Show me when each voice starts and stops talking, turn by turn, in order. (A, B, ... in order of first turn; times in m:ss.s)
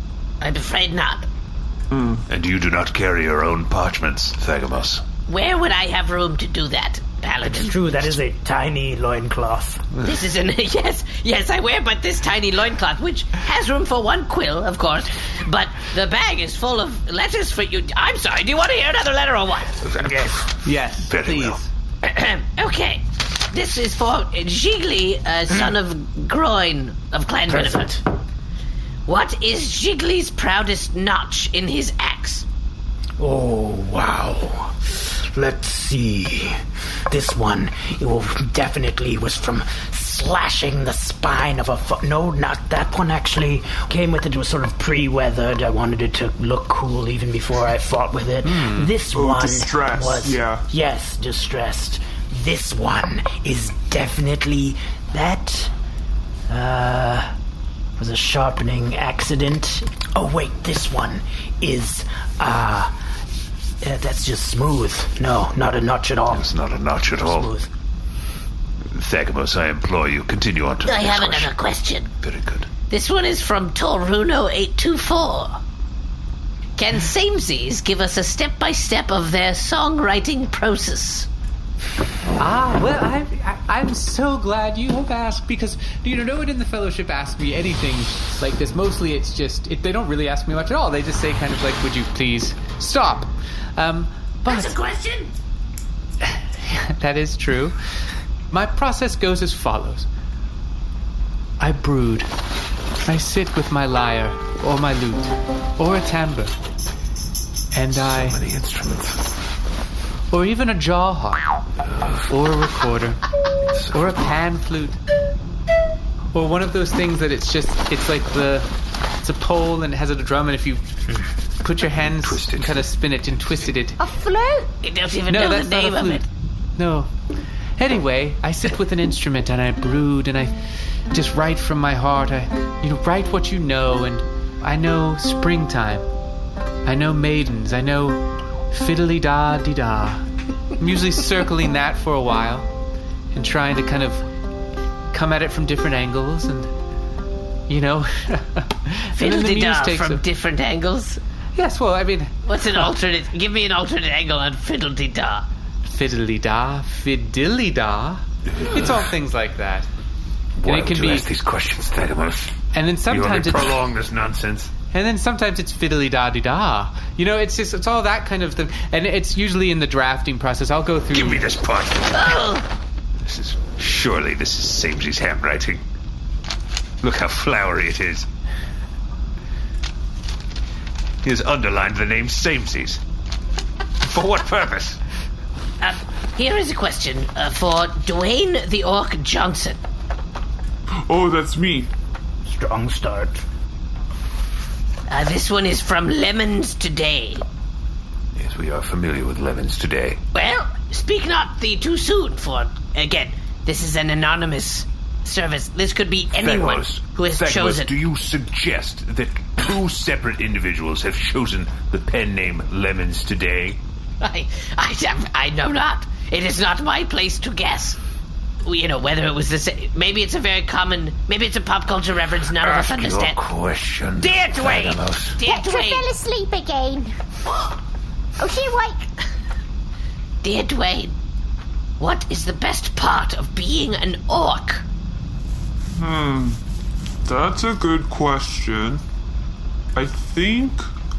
0:00.4-0:01.3 A
0:01.9-0:02.2 B
0:02.3-0:05.0 C
0:05.3-0:07.8 A
0:07.4-0:09.8 D
0:10.0-0:19.8 A
0:19.8-0:21.6 C
0:20.0-0:20.4 D
0:20.6-0:21.7 E
0:22.0-0:28.0 A
0:27.5-0:28.0 D
0:29.1-0:32.4 A
0:33.2-0:55.7 D
0:48.4-0:48.9 E
0:49.1-0:50.6 B
0:56.5-0:57.3 D
0:58.0-1:02.9 D
1:03.8-1:06.5 D
1:06.3-1:07.5 C
1:07.2-1:07.7 D
1:08.9-1:11.5 C
1:10.8-1:12.1 A
1:12.2-1:12.7 C
1:12.9-1:15.6 A
1:16.8-1:21.3 A
1:22.4-1:34.8 E
1:34.5-1:35.3 A
1:36.2-1:37.8 E
1:38.5-1:40.1 E
1:41.6-1:42.3 E
1:43.1-1:46.6 E
1:47.7-1:48.4 E
1:48.0-1:49.3 C
1:50.3-1:51.5 E
1:51.8-1:52.3 C
1:52.3-1:53.2 E
1:53.7-1:54.3 C
1:53.9-1:55.0 E
1:56.3-1:58.7 E
1:59.2-2:00.8 E
2:01.6-2:04.0 E
2:02.0-2:02.9 C
2:04.0-2:04.7 F
2:04.8-2:06.2 A
2:05.3-2:06.2 E
2:06.8-2:07.1 E
2:07.8-2:10.6 E
2:11.1-2:16.1 E
2:16.8-2:20.2 E
2:20.8-2:22.7 E
2:23.3-2:24.2 E
2:25.1-2:26.7 E
2:27.7-2:30.2 E
2:29.2-2:31.2 A
2:31.6-2:32.3 E
2:32.5-2:35.5 A
2:35.9-2:39.9 E
2:38.5-2:39.1 C
2:40.6-2:42.6 C
2:40.6-2:41.3 E
2:42.7-2:43.8 E
2:43.1-2:44.7 C
2:44.9-2:51.5 E
2:51.1-2:52.6 C
2:52.1-2:52.7 A
2:53.2-2:55.8 C
2:57.0-2:58.3 C
3:01.2-3:03.0 C
3:04.0-3:05.0 C
3:05.8-3:09.8 A
3:11.1-3:11.9 B
3:12.4-3:13.4 D
3:15.1-3:17.4 A
3:18.4-3:20.2 C
3:20.3-3:28.0 A
3:26.3-3:33.8 C
3:34.2-3:38.0 A
3:38.6-3:43.4 A
3:42.6-3:45.4 C
3:44.2-3:46.1 A
3:45.4-3:47.1 F
3:48.4-3:49.1 F
3:50.4-3:51.2 A
3:52.0-3:54.8 A
3:56.0-3:56.6 B
3:57.2-3:59.0 B
4:00.0-4:00.8 B